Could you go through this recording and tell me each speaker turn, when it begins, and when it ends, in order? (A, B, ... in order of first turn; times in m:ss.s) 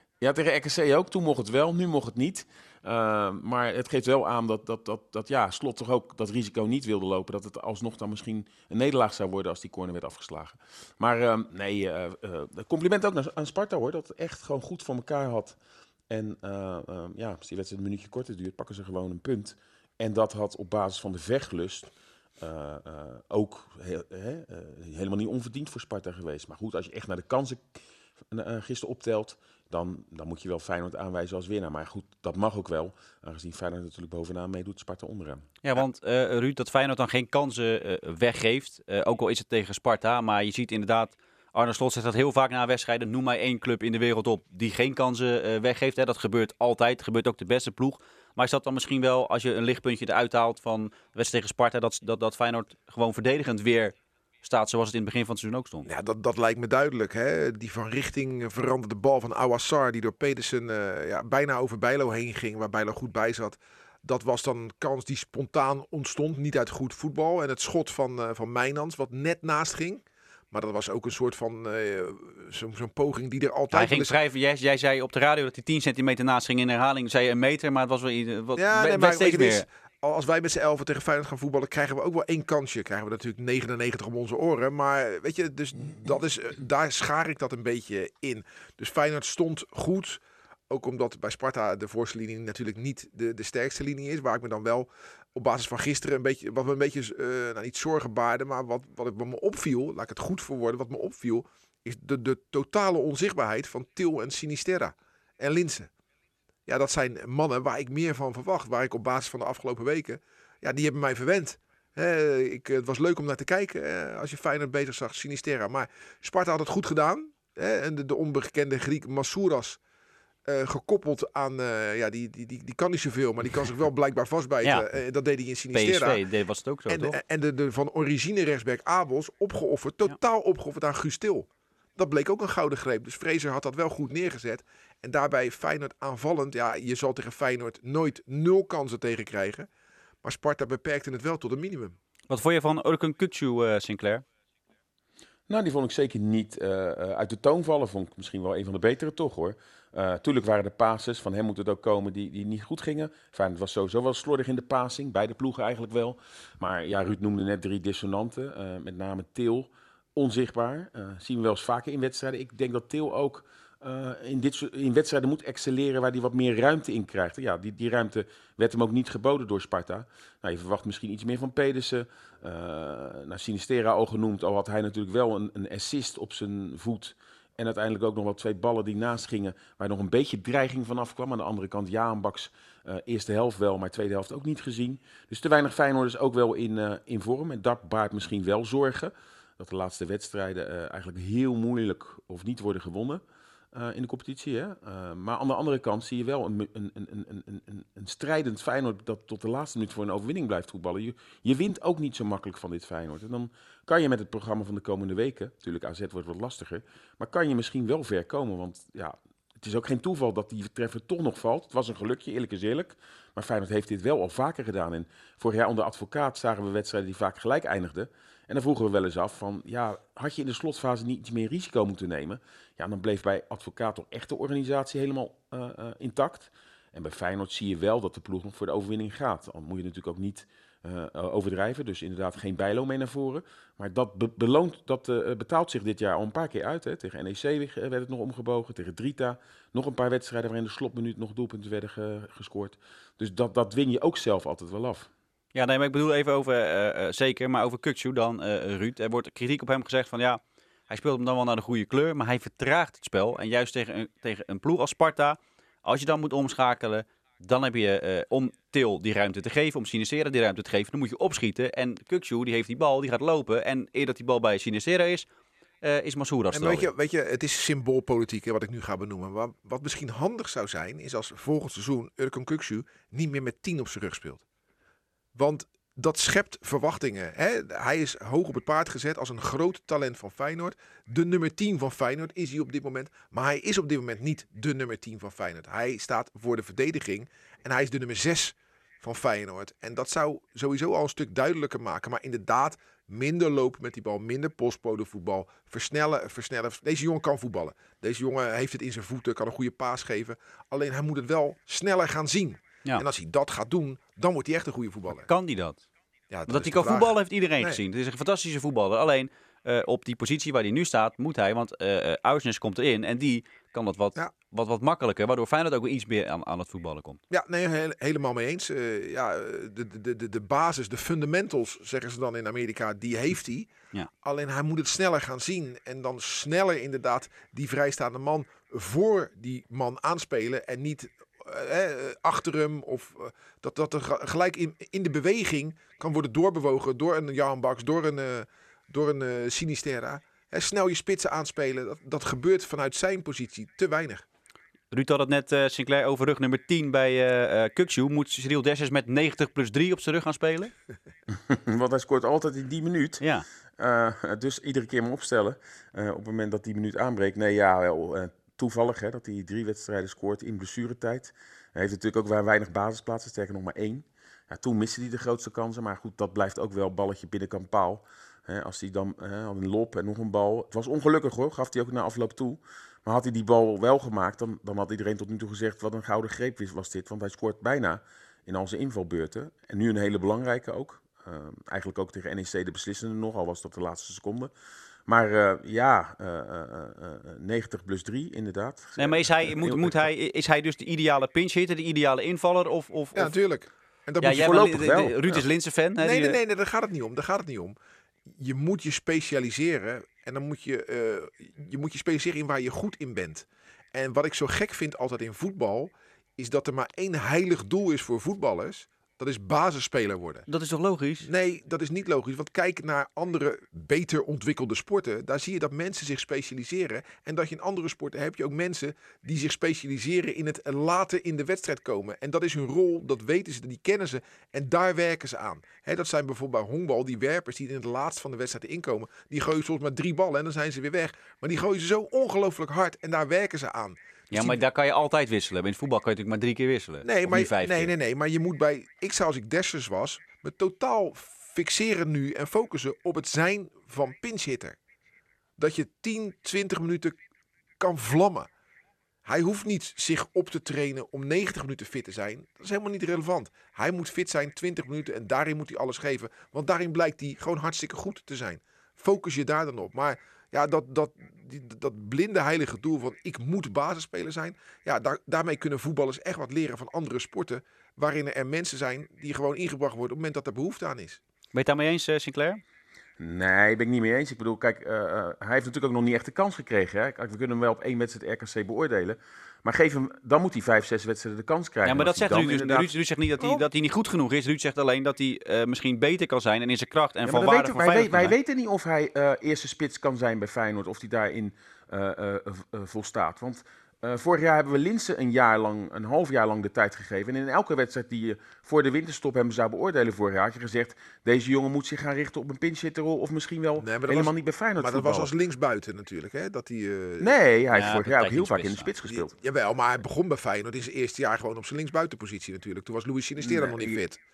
0:00.2-0:15.6 A
0:16.1-0:27.8 A
0:28.3-0:35.4 A
0:35.6-0:55.9 B
0:55.8-1:14.2 C
1:13.7-1:19.6 B
1:18.6-1:45.9 C
1:46.7-1:59.8 C
2:00.4-2:06.2 C
2:05.7-2:07.2 B
2:06.9-2:19.7 C
2:20.2-2:21.9 C
2:22.3-2:24.2 B
2:25.5-3:13.2 A
3:13.7-4:05.1 A
4:05.5-4:25.3 B
4:25.8-4:26.9 B
4:26.5-4:34.4 C
4:35.3-5:05.3 C
5:05.2-5:05.8 B
5:06.3-5:07.8 C
5:06.5-5:17.2 B
5:17.3-5:23.7 C
5:24.2-5:44.2 C
5:44.9-5:50.7 B
5:51.3-5:53.2 A
5:53.2-5:53.4 B
5:53.8-6:24.5 A
6:25.0-6:30.0 A
6:29.0-6:33.3 B
6:33.1-6:35.4 C
6:34.2-6:36.4 B
6:34.5-6:35.2 A
6:36.0-6:37.7 C
6:38.3-6:50.5 C
6:50.5-6:51.3 B
6:51.2-7:14.6 C
7:14.3-7:17.9 B
7:17.0-7:24.8 C
7:25.6-7:27.2 C
7:27.8-7:28.5 C
7:29.2-7:51.2 C
7:51.5-7:52.6 B
7:53.2-8:02.9 A
8:01.8-8:08.3 B
8:07.2-8:25.3 A
8:23.8-8:27.3 C
8:27.2-8:29.3 A
8:27.7-8:28.9 B
8:29.0-8:34.2 C
8:33.4-8:34.0 A